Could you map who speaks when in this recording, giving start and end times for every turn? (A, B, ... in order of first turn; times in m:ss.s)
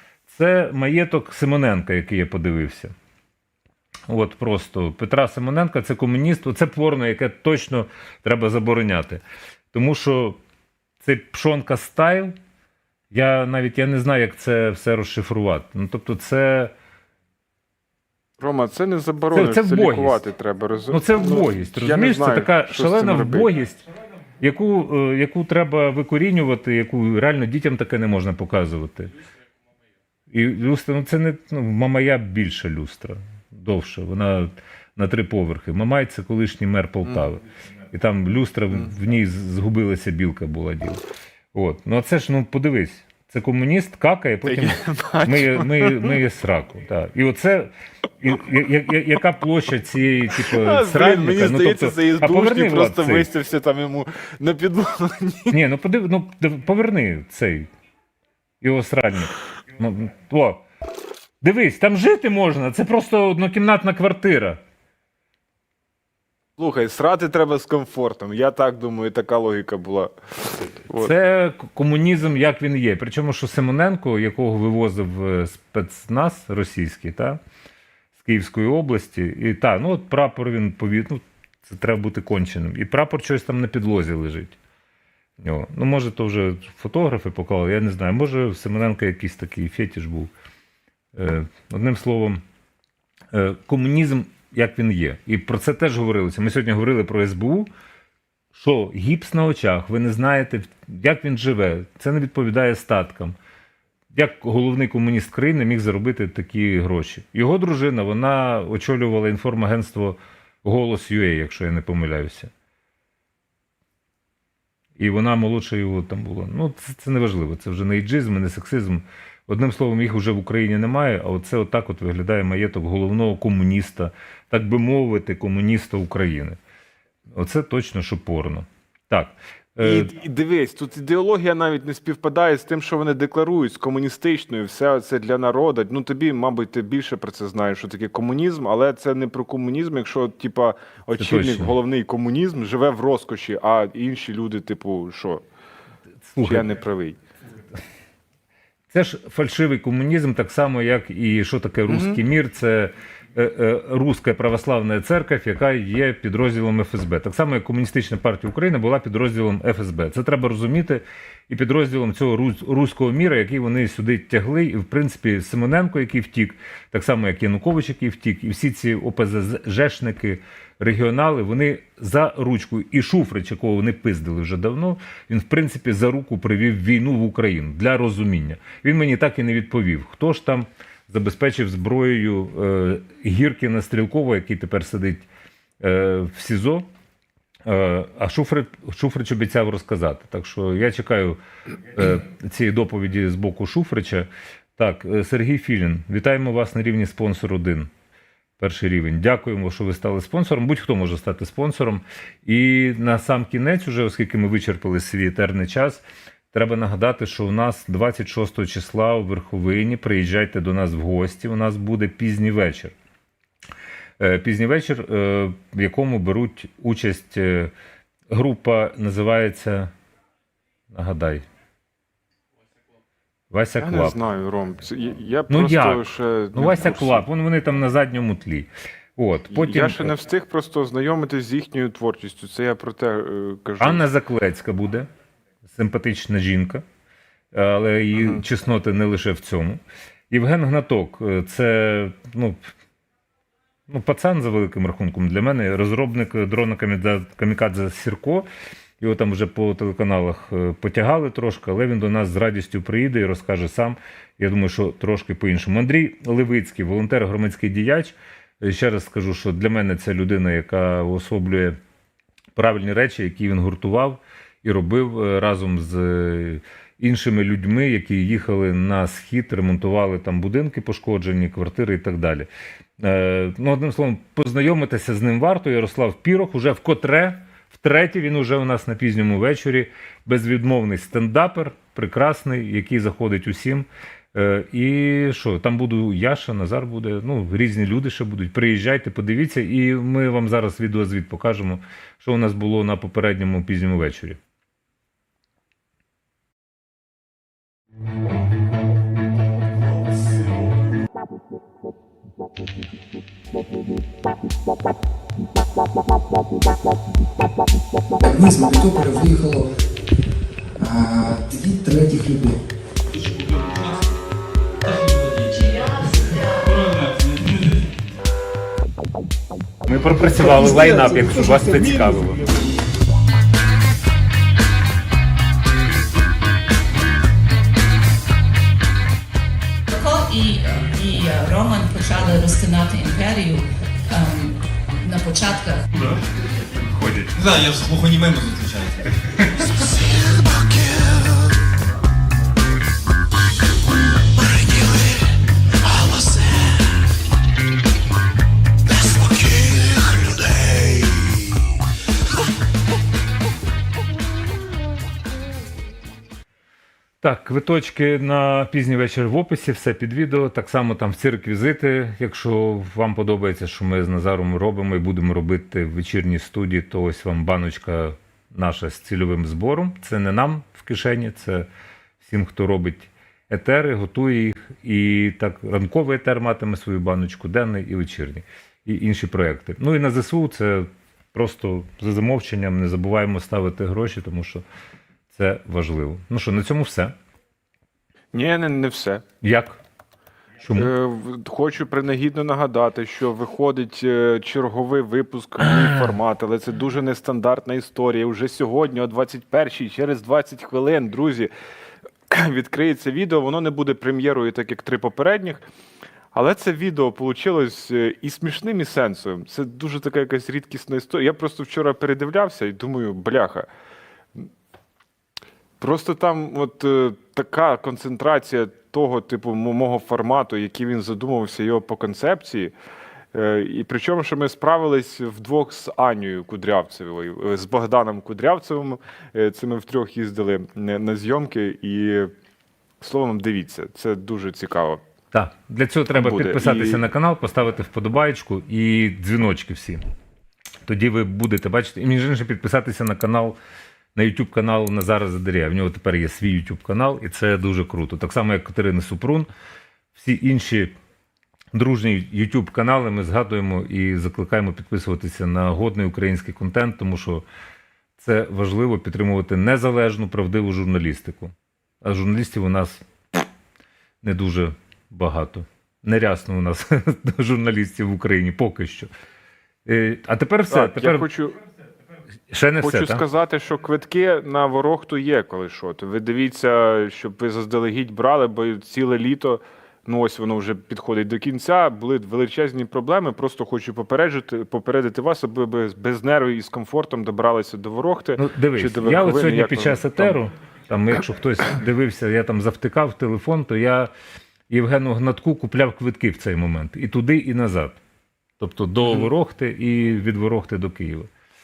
0:00.3-0:02.9 A
0:04.1-0:09.2 A
0:09.7-0:10.4 A
0:11.0-0:12.3 A
0:13.1-0:16.7 A
0:18.4-0:23.5 B
0:19.3-0:20.2 A
0:20.9-0:23.8 A
0:24.4-0:29.1 A
0:30.3-0:41.0 A
0:41.5-0:53.3 A
0:44.4-0:46.2 B
0:50.4-0:55.6 B
0:55.5-0:57.7 A
0:58.6-1:00.6 A
1:01.4-1:04.6 A
1:06.6-1:11.1 B
1:11.0-1:17.4 A
1:18.2-1:24.6 A
1:25.4-1:30.3 A
1:31.2-1:32.4 A
1:33.3-1:37.7 A
1:38.5-1:43.4 A
1:44.1-1:52.5 A
1:55.0-2:06.6 A
2:07.3-2:10.1 A
2:09.8-2:25.4 B
2:21.2-2:21.8 A
2:26.2-2:26.7 A
2:26.4-2:27.2 B
2:28.9-3:05.3 A
2:31.9-2:32.2 B
3:05.8-3:06.9 A
3:07.7-3:11.4 A
3:11.9-3:17.9 A
3:18.6-3:32.9 A
3:34.2-3:37.7 A
3:38.3-3:39.9 A
3:40.9-3:41.4 A
3:43.5-3:44.2 A
3:43.8-3:47.3 B
3:45.5-3:46.0 A
3:46.5-3:50.1 A
3:49.5-3:54.0 B
3:53.8-3:55.1 A
3:55.6-3:56.8 A
3:57.5-3:59.8 A
3:58.2-3:58.4 B
4:00.3-4:02.6 A
4:03.9-4:08.5 A
4:09.0-4:21.8 A
4:22.6-4:32.5 A
4:33.0-4:54.4 A
5:08.3-5:09.6 C
5:08.5-5:09.7 D
5:10.8-5:12.6 D
5:13.1-5:14.1 C
5:14.8-5:17.9 C
5:19.8-5:22.4 A
5:20.4-5:22.4 B
5:29.9-5:35.9 E
5:36.0-5:37.3 A
5:37.4-5:39.9 C
5:40.6-5:41.1 A
5:50.0-5:50.7 A
5:57.2-6:11.7 A
6:12.2-6:24.6 A
6:25.3-6:27.2 A
6:28.3-6:29.2 B
6:29.4-6:29.8 A
6:30.6-6:30.9 A
6:30.8-6:41.5 B
6:35.6-6:36.1 A
6:42.3-6:45.6 B
6:46.3-6:53.7 B
6:55.8-7:02.8 B
7:03.3-7:12.3 B
7:13.0-7:15.0 B
7:15.3-7:20.0 A
7:16.1-7:17.0 B
7:20.9-7:23.6 A
7:24.2-7:29.5 A
7:30.1-7:30.9 A
7:31.7-7:37.4 A
7:38.2-7:43.4 A
7:44.2-7:49.1 A
7:49.9-7:51.3 A
7:50.7-7:51.6 B
7:52.5-7:53.2 A
7:52.8-8:10.4 B
8:08.4-8:14.1 A
8:14.7-8:18.0 A
8:18.6-8:21.3 A
8:19.0-8:19.3 B